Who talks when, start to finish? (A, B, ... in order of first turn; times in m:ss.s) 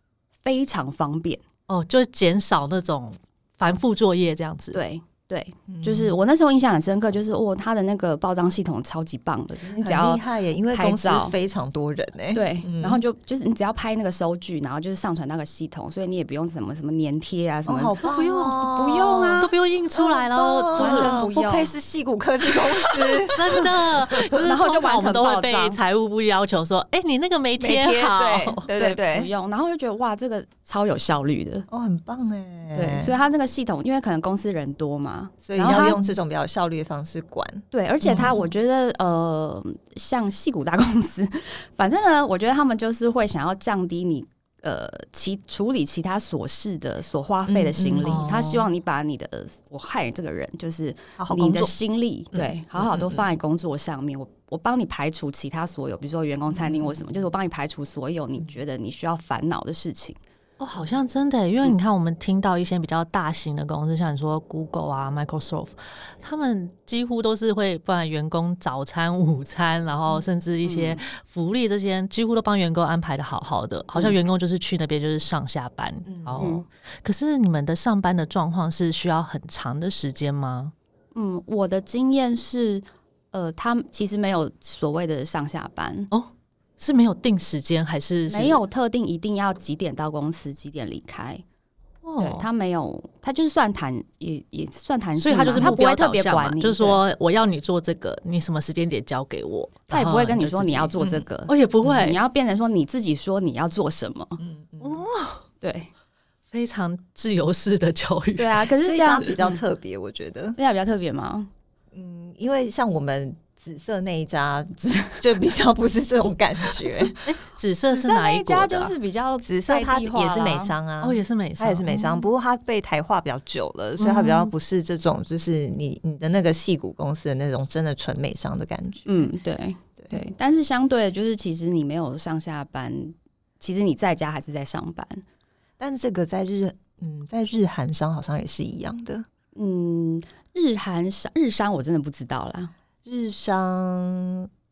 0:00.4-0:01.4 A
0:01.7-0:04.8 B
0:04.7-0:10.2 A
0:05.7-0:06.2 C
0:09.8-0:13.0 C
0:10.7-0:11.4 A
0:12.3-0:18.0 A
0:17.6-0:24.4 C
0:18.0-0:18.7 B
0:18.6-0:19.5 A
0:19.4-0:21.2 B
0:20.7-0:21.7 A
0:23.2-0:28.6 B
0:24.3-0:25.8 A
0:27.6-0:29.3 C
0:28.7-0:31.7 A
0:31.7-0:33.1 C
0:32.7-0:36.1 A
0:35.4-0:38.4 C
0:37.7-1:00.2 A
0:47.5-0:48.3 C
0:48.0-0:48.7 B
0:51.2-0:51.7 C
0:52.3-0:53.2 C
0:56.6-0:57.0 C
1:00.6-1:20.7 B
1:10.6-1:11.0 A
1:16.0-1:16.5 C
1:16.4-1:16.6 A
1:21.1-1:26.1 A
1:26.1-1:28.6 B
1:28.3-1:31.4 A
1:32.0-1:32.5 B
1:32.2-1:37.0 A
1:35.2-1:42.2 B
1:39.9-1:44.4 A
1:44.4-1:45.0 C
1:44.8-1:45.4 B
1:45.6-1:45.9 A
1:46.5-1:48.7 B
1:48.4-1:49.6 A
1:48.7-1:50.6 C
1:50.6-1:51.5 A
1:51.9-1:57.2 C
1:57.2-1:58.9 B
1:57.9-2:00.7 A
1:59.4-2:09.3 C
2:01.0-2:01.9 B
2:04.0-2:04.5 B
2:09.0-2:15.2 A
2:15.8-2:19.2 C
2:19.5-2:22.7 A
2:23.0-2:24.5 C